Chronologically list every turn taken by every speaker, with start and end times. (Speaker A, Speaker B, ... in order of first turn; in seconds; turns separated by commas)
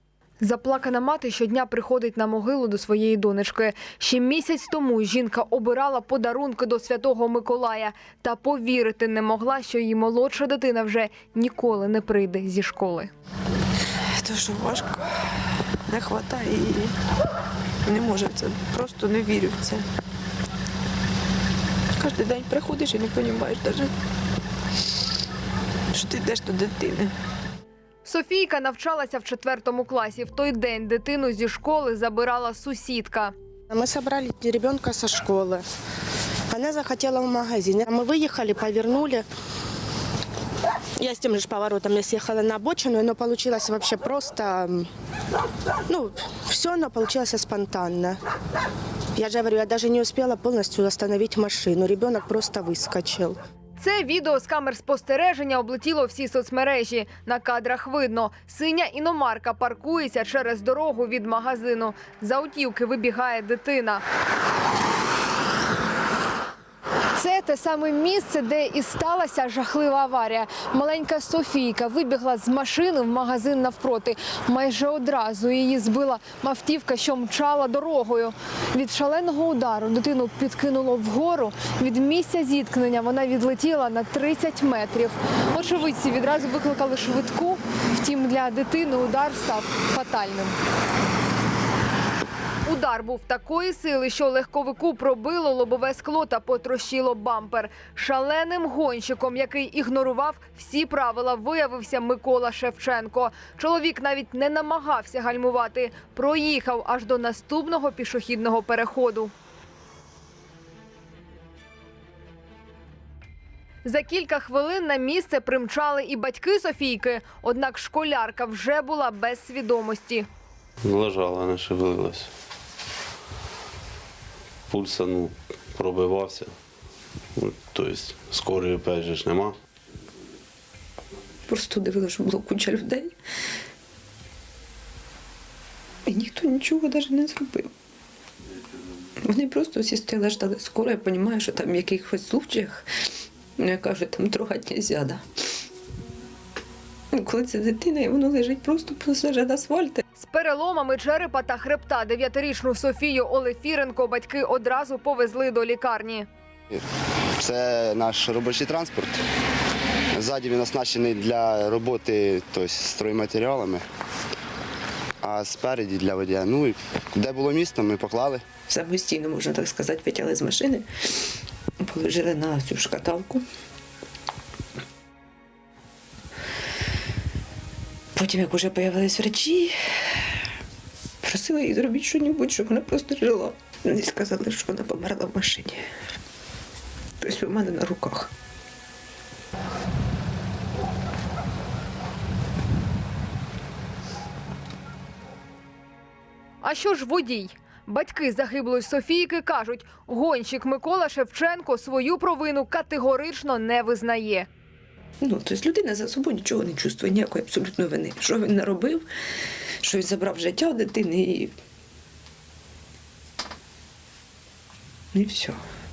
Speaker A: 0.4-13.1, Speaker B: 14.2-15.2, Speaker B: 15.9-16.9, Speaker B: 17.9-19.8, Speaker B: 22.0-23.9, Speaker B: 25.9-27.1, Speaker A: 28.1-33.3, Speaker C: 33.7-35.6, Speaker C: 36.5-39.2, Speaker C: 41.0-44.8, Speaker C: 45.9-48.1, Speaker C: 49.2-53.3, Speaker A: 53.8-64.0, Speaker A: 67.2-90.5, Speaker A: 92.6-109.3, Speaker A: 113.8-120.2, Speaker D: 120.8-122.3, Speaker D: 124.7-126.5, Speaker D: 127.4-129.6, Speaker B: 131.5-133.2, Speaker B: 136.1-137.7, Speaker B: 139.2-142.8, Speaker B: 143.6-145.2, Speaker B: 147.1-150.0, Speaker A: 150.2-156.3, Speaker E: 157.4-159.2, Speaker E: 160.1-163.8, Speaker E: 165.2-168.4, Speaker B: 168.7-170.9, Speaker B: 171.8-173.4, Speaker B: 178.2-179.8, Speaker B: 181.2-185.9, Speaker B: 187.2-188.3, Speaker A: 196.6-204.5, Speaker B: 205.2-209.1, Speaker B: 209.8-211.5, Speaker B: 215.1-215.6